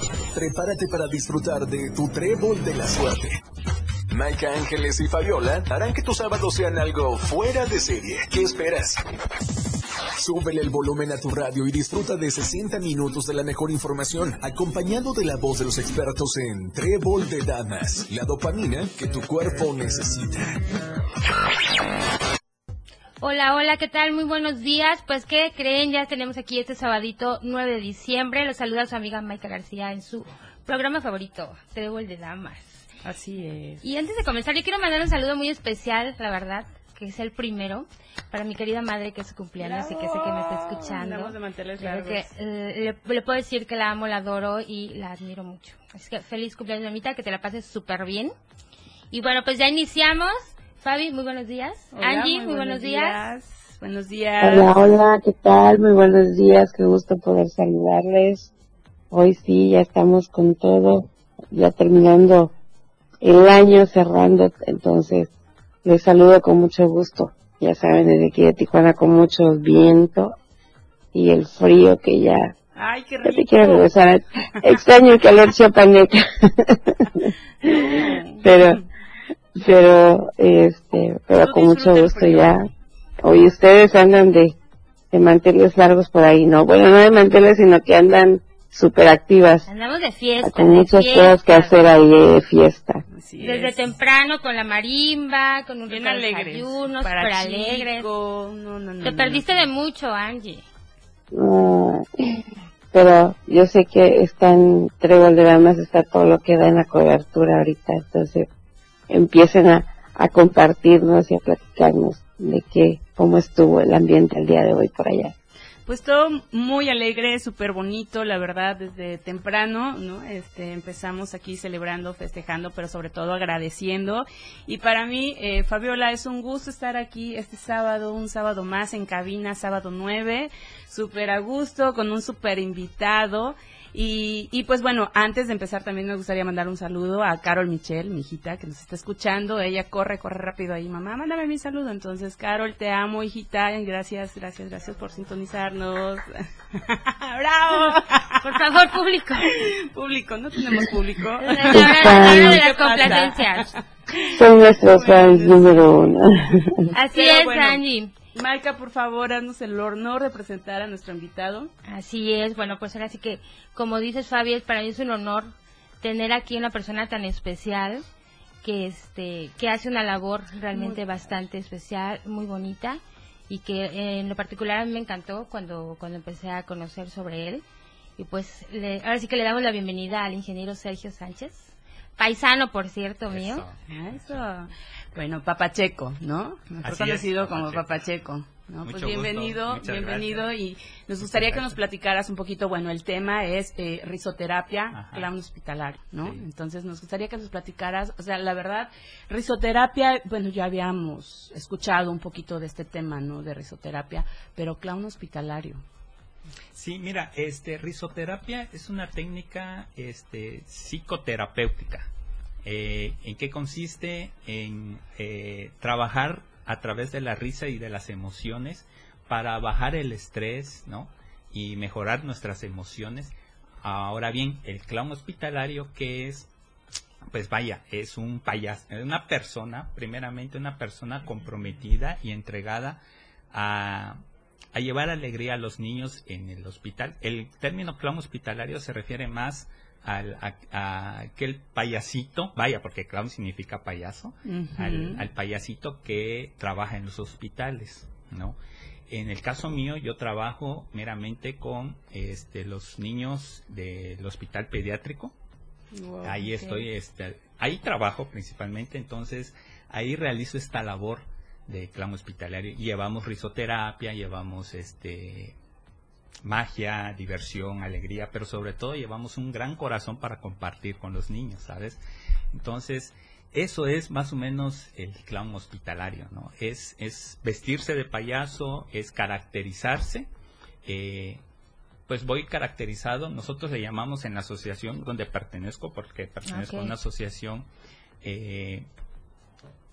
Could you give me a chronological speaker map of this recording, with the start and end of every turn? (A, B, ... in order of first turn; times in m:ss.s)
0:00.3-0:03.4 A
0:04.1-0:09.0 A
0:10.2-0:20.7 A
0:23.2-0:32.9 B
0:33.0-0:33.8 C
0:33.8-0:48.3 B
0:39.6-0:42.3 C
0:49.1-0:53.2 B
0:51.9-0:54.7 C
0:54.4-0:58.5 D
0:59.1-1:02.5 D
1:03.2-1:05.3 D
1:05.8-1:10.3 D
1:11.1-1:12.5 D
1:12.7-1:13.9 C
1:13.2-1:18.8 D
1:17.6-1:18.8 C
1:19.5-1:22.7 D
1:21.4-1:22.6 C
1:23.2-1:24.6 D
1:25.1-1:29.7 D
1:29.6-1:31.8 B
1:30.4-1:33.0 D
1:33.1-1:33.8 C
1:33.4-1:38.1 B
1:35.9-1:39.6 C
1:39.0-1:40.6 B
1:41.3-1:48.5 D
1:49.1-1:55.3 D
1:55.8-2:28.6 C
2:28.4-2:29.5 B
2:29.5-2:35.9 C
2:31.4-2:33.7 B
2:31.8-2:32.6 D
2:34.3-2:36.8 D
2:36.9-2:38.1 B
2:37.1-2:37.8 C
2:38.3-2:41.7 C
2:41.8-2:48.1 B
2:48.6-2:57.6 B
2:50.7-2:51.3 C
2:58.2-3:03.6 B
3:03.3-3:04.4 E
3:03.9-3:25.8 C
3:06.8-3:08.0 E
3:08.8-3:10.5 E
3:11.2-3:11.8 E
3:14.9-3:15.3 E
3:16.2-3:16.4 E
3:26.7-3:32.1 E
3:32.6-3:46.5 E
3:47.3-3:54.2 E
3:54.7-4:08.6 E
4:04.4-4:05.2 C
4:09.1-4:15.3 E
4:15.9-4:16.8 C
4:16.2-4:25.6 E
4:26.4-4:32.0 E
4:32.5-4:40.3 E
4:40.8-4:41.4 E
4:42.1-4:47.7 E
4:46.4-4:46.9 B
4:48.2-4:48.9 E